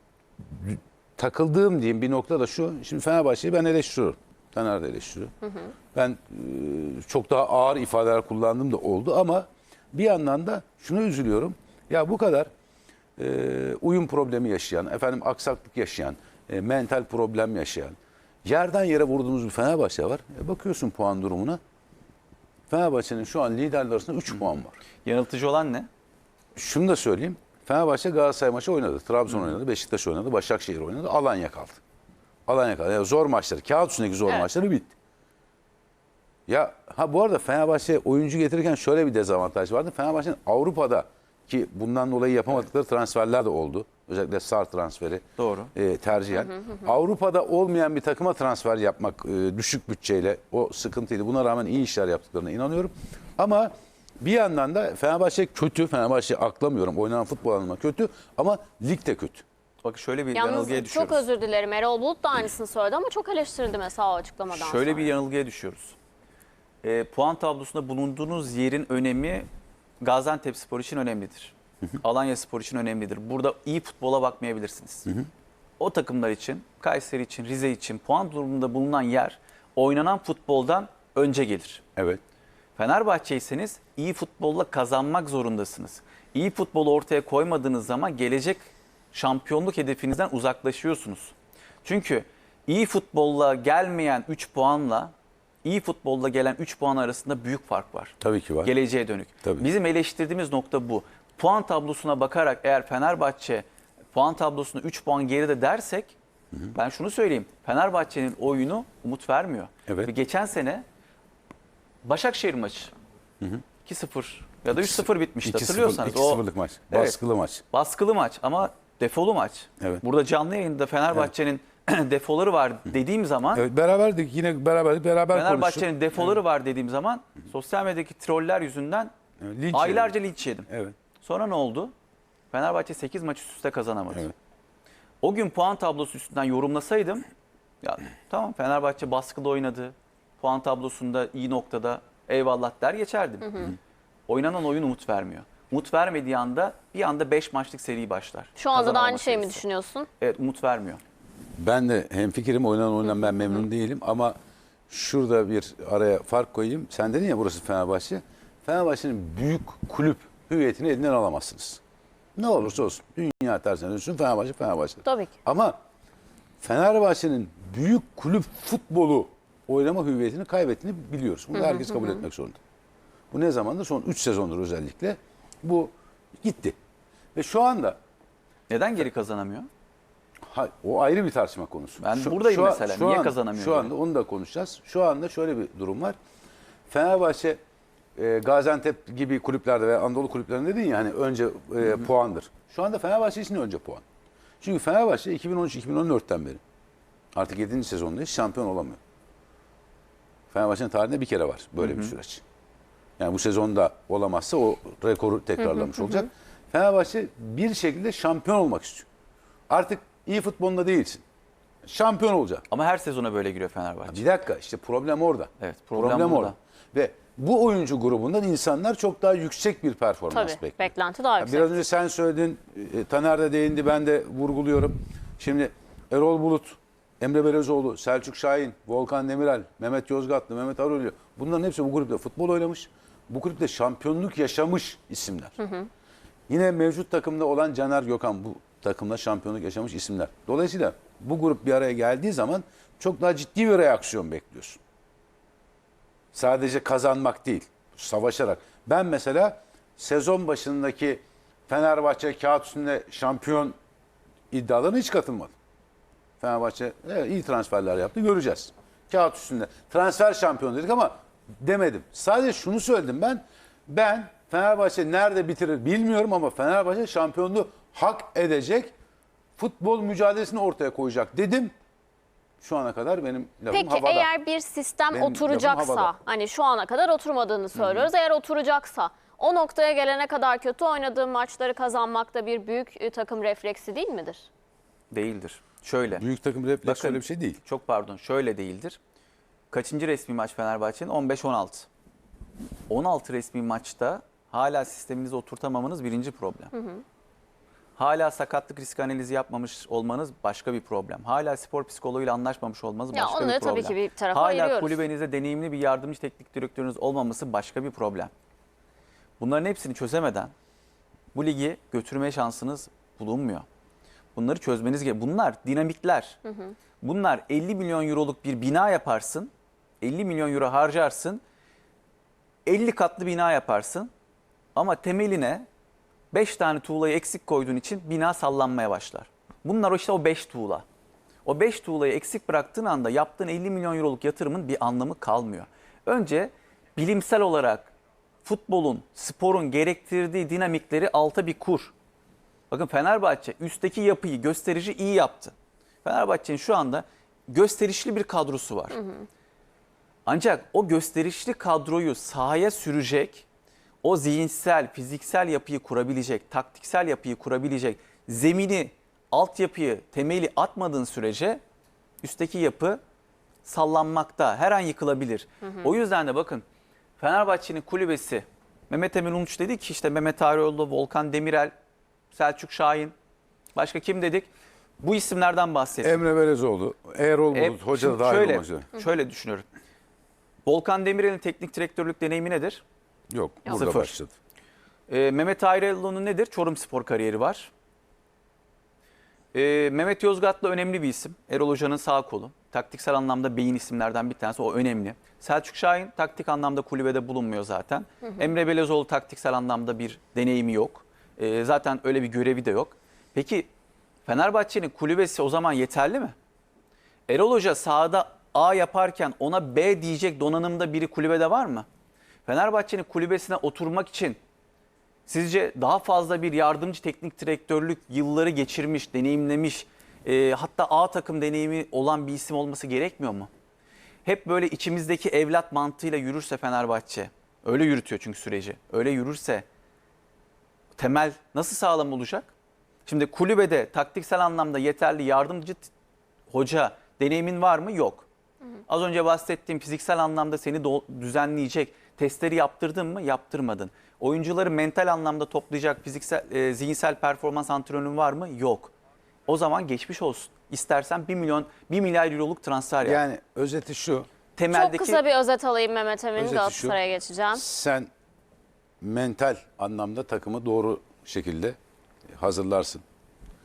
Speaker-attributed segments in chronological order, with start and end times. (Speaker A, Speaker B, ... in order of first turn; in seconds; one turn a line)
Speaker A: 0.5-5.3
Speaker A: 5.9-12.5
Speaker A: 13.2-21.6
Speaker A: 22.7-24.8
Speaker B: 25.1-25.9
Speaker A: 26.6-31.8
Speaker A: 32.5-34.9
Speaker A: 36.5-45.2
Speaker B: 45.4-45.7
Speaker A: 45.7-59.5
Speaker B: 59.8-61.2
Speaker C: 60.3-65.1
Speaker B: 64.5-66.0
Speaker B: 66.8-69.5
Speaker B: 70.0-75.1
Speaker B: 75.8-81.8
Speaker A: 82.0-82.2
Speaker B: 82.8-91.3
Speaker B: 91.8-95.1
Speaker B: 95.6-106.1
Speaker A: 98.2-98.7
Speaker B: 106.7-110.8
Speaker B: 112.0-112.9
Speaker B: 113.8-117.2
Speaker A: 114.7-117.6
Speaker B: 117.7-123.7
Speaker A: 123.5-126.4
Speaker B: 125.3-129.1
Speaker A: 129.4-131.0
Speaker B: 129.7-130.7
Speaker B: 131.2-131.9
Speaker B: 132.5-134.3
Speaker B: 135.2-137.3
Speaker B: 137.8-143.7
Speaker B: 144.3-149.6
Speaker C: 148.6-150.1
Speaker B: 150.2-151.0
Speaker A: 151.6-154.4
Speaker A: 154.9-161.8
Speaker A: 162.4-165.8
Speaker C: 165.1-165.3
Speaker A: 166.6-172.6
Speaker C: 171.6-172.1
Speaker A: 173.3-176.8
Speaker A: 177.3-178.0
Speaker B: 178.7-179.7
Speaker A: 180.5-186.2
Speaker B: 182.0-183.9
Speaker A: 186.9-187.6
Speaker A: 188.2-194.0
Speaker A: 194.6-196.6
Speaker A: 197.3-199.0
Speaker A: 200.5-202.4
Speaker B: 201.8-202.1
Speaker A: 203.2-209.1
Speaker A: 209.7-211.2
Speaker A: 211.8-212.7
Speaker B: 212.7-214.2
Speaker A: 214.1-220.9
Speaker B: 215.6-216.6
Speaker C: 220.3-221.8
Speaker A: 221.4-235.6
Speaker C: 235.6-235.9
Speaker A: 236.5-244.8
Speaker A: 246.3-253.8
Speaker A: 254.5-255.5
Speaker A: 256.4-268.9
Speaker A: 269.6-271.7
Speaker A: 272.6-274.3
Speaker C: 273.7-284.5
Speaker A: 275.1-276.1
Speaker B: 277.8-278.1
Speaker B: 285.1-286.2
Speaker A: 286.2-287.6
Speaker B: 286.8-289.0
Speaker B: 289.7-291.9
Speaker B: 292.9-296.7
Speaker C: 296.7-297.0
Speaker B: 298.0-308.3
Speaker C: 303.1-305.0
Speaker B: 309.4-310.5
Speaker B: 311.3-313.6
Speaker B: 314.4-316.4
Speaker C: 316.5-316.8
Speaker B: 317.0-319.5
Speaker B: 320.0-321.4
Speaker B: 322.7-324.1
Speaker B: 324.8-325.7
Speaker B: 326.3-330.9
Speaker B: 331.4-337.9
Speaker B: 338.4-341.9
Speaker B: 342.7-349.0
Speaker C: 349.0-349.3
Speaker B: 350.3-353.4
Speaker B: 354.0-361.6
Speaker B: 362.2-363.0
Speaker B: 363.6-366.6
Speaker B: 367.2-371.7
Speaker B: 372.3-373.1
Speaker B: 373.8-374.5
Speaker B: 375.0-376.2
Speaker A: 376.0-378.9
Speaker B: 377.5-379.7
Speaker B: 380.7-382.8
Speaker A: 383.3-384.3
Speaker B: 383.7-384.1
Speaker B: 385.1-387.7
Speaker B: 389.5-403.7
Speaker B: 404.3-406.4
Speaker B: 407.3-411.9
Speaker B: 412.5-414.4
Speaker B: 415.3-423.5
Speaker B: 424.2-429.6
Speaker B: 431.0-432.5
Speaker B: 433.1-435.9
Speaker B: 436.5-438.3
Speaker B: 438.9-448.9
Speaker B: 449.5-453.2
Speaker A: 453.0-454.3
Speaker B: 454.6-455.2
Speaker C: 454.7-457.6
Speaker A: 456.4-457.0
Speaker A: 457.6-458.1
Speaker A: 459.0-461.8
Speaker A: 462.4-463.0